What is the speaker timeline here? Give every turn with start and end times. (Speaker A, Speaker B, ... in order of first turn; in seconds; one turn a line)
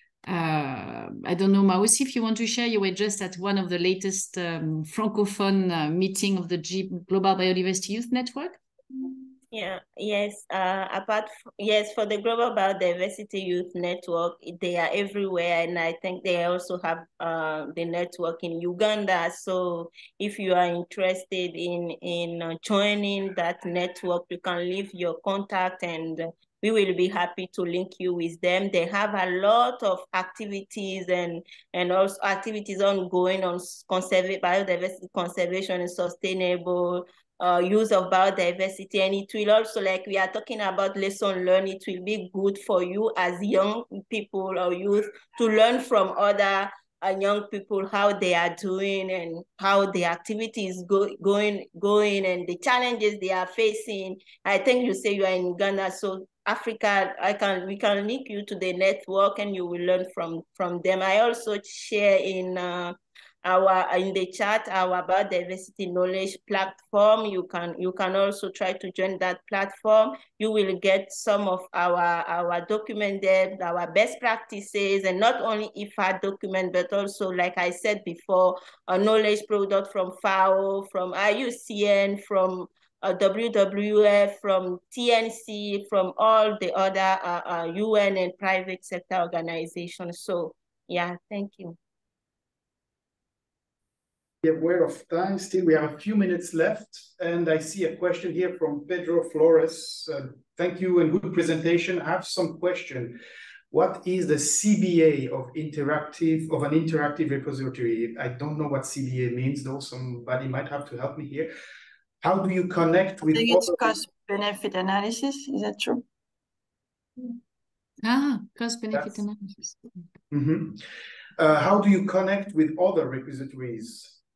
Speaker A: 0.2-8.6
Speaker B: 9.5-91.8
Speaker C: 94.4-103.2
Speaker C: 103.7-111.5
Speaker C: 112.2-114.0
Speaker D: 113.2-116.0
Speaker A: 118.0-119.9
Speaker C: 118.9-119.2
Speaker C: 120.3-120.8
Speaker C: 121.4-124.2